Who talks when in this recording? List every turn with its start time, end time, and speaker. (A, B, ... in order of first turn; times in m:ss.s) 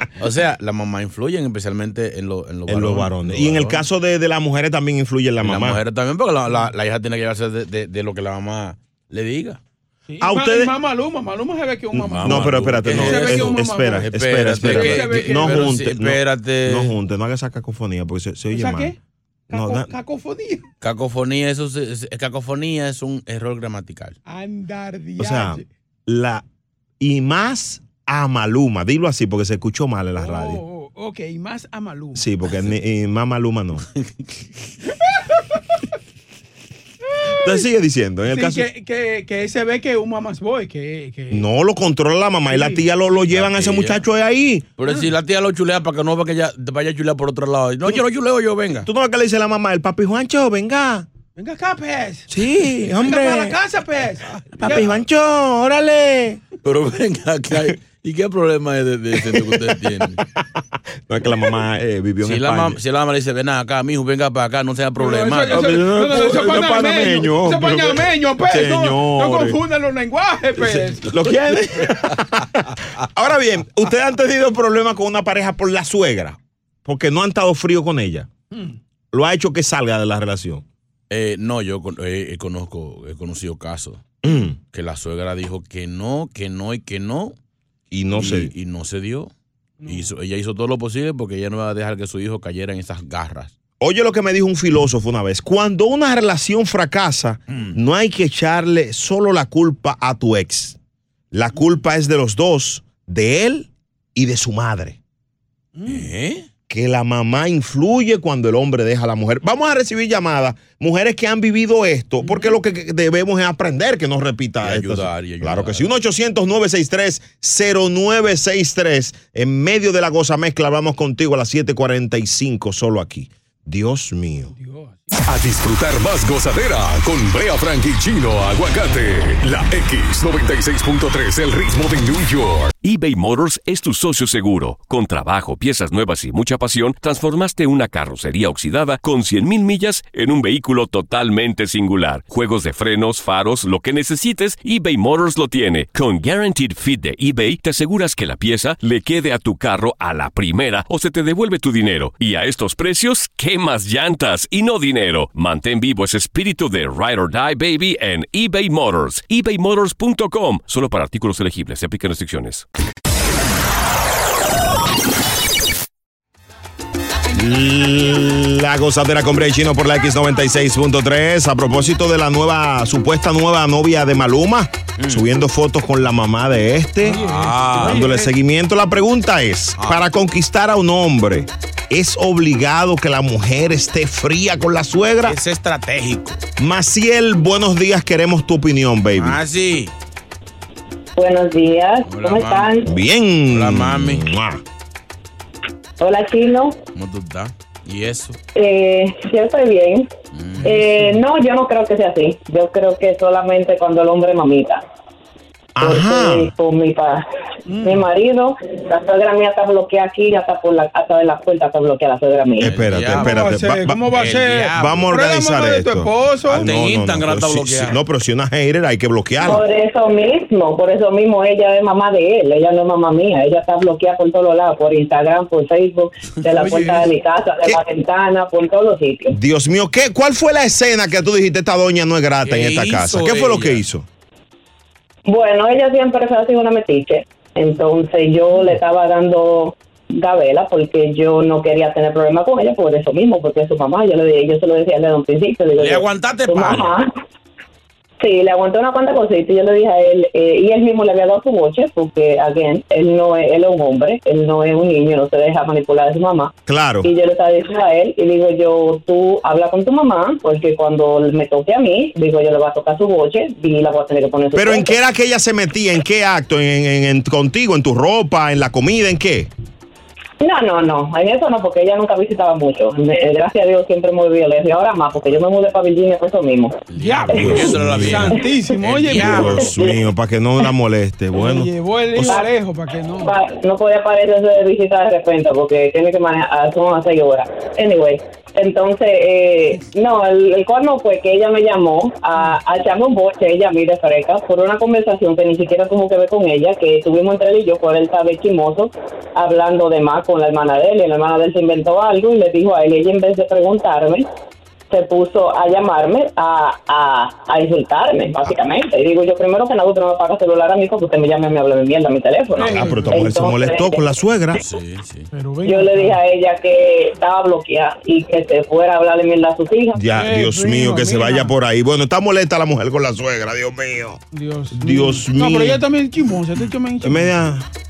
0:00.2-0:03.8 A
0:02.7-0:05.8 B
0:05.4-0:09.6 A
0:10.1-0:14.1 C
0:10.2-0:10.7 B
0:11.9-0:16.9 A
0:12.2-0:18.9 B
0:14.6-0:15.7 C
0:18.5-0:19.0 C
0:19.5-0:20.6 C
0:19.5-0:19.9 B
0:20.8-0:24.2 A
0:24.3-0:25.6 C
0:25.2-0:26.4 B
0:27.0-0:30.6 B
0:30.2-0:32.2 C
0:32.1-0:33.8 B
0:35.0-0:35.6 C
0:37.4-0:38.7 B
0:38.3-0:41.4 C
0:41.3-0:44.7 B
0:42.5-0:42.8 C
0:43.3-0:44.0 A
0:44.8-0:48.9 A
0:48.8-0:51.0 B
0:51.4-0:52.3 C
0:52.3-0:53.6 B
0:52.9-0:54.9 C
0:54.5-0:56.4 B
0:54.5-0:55.0 A
0:56.6-1:00.2 A
0:59.2-1:00.4 B
1:01.1-1:02.8 B
1:02.2-1:05.8 A
1:05.0-1:11.1 C
1:05.5-1:09.6 B
1:10.6-1:18.3 B
1:18.5-1:18.8 C
1:19.1-1:20.6 B
1:21.1-1:24.0 A
1:24.2-1:24.6 B
1:24.7-1:27.4 A
1:27.9-1:28.5 B
1:28.1-1:29.3 A
1:29.8-1:30.1 C
1:29.8-1:33.5 A
1:33.8-1:40.8 B
1:37.5-1:37.8 A
1:41.3-1:45.0 B
1:45.8-1:46.1 C
1:45.8-1:46.5 A
1:46.7-2:04.5 B
1:52.2-1:52.6 C
1:54.6-1:55.9 A
2:04.5-2:05.2 C
2:05.2-2:12.7 D
2:12.8-2:42.6 E
2:47.3-3:05.4 B
2:55.0-2:55.3 A
2:57.0-2:58.3 C
2:57.1-2:58.0 A
2:59.8-3:00.0 A
3:05.2-3:06.4 A
3:06.6-3:09.4 B
3:09.1-3:09.9 A
3:11.2-3:12.9 F
3:12.0-3:12.7 A
3:12.8-3:14.6 B
3:13.5-3:14.3 A
3:16.0-3:16.8 F
3:16.9-3:18.4 A
3:18.5-3:20.1 F
3:20.3-3:20.9 A
3:20.6-3:21.2 C
3:20.6-3:24.8 F
3:25.7-3:26.5 B
3:25.8-3:27.2 F
3:27.7-3:28.0 C
3:27.8-3:32.7 F
3:32.6-3:34.0 B
3:32.6-3:33.4 A
3:33.1-3:36.7 C
3:34.1-3:35.2 A
3:34.7-3:39.6 B
3:36.5-3:38.0 A
3:39.4-3:49.4 F
3:46.6-3:47.0 C
3:49.3-3:54.0 B
3:52.4-3:53.8 A
3:55.2-4:07.1 F
4:05.8-4:06.9 A
4:08.2-4:25.0 F
4:16.7-4:17.1 B
4:24.5-4:29.5 B
4:30.4-4:36.9 F
4:36.9-4:39.8 A
4:37.0-4:39.6 C
4:37.3-4:38.3 B
4:39.1-4:42.4 B
4:41.3-4:43.3 C
4:43.2-5:04.2 F
5:04.9-5:14.0 F
5:12.6-5:13.2 C
5:12.6-5:14.6 B
5:14.6-5:15.3 A
5:15.3-5:16.2 C
5:15.6-5:20.0 F
5:19.9-5:24.2 B
5:20.2-5:21.5 C
5:24.3-5:27.4 C
5:24.7-5:25.8 B
5:27.0-5:27.7 B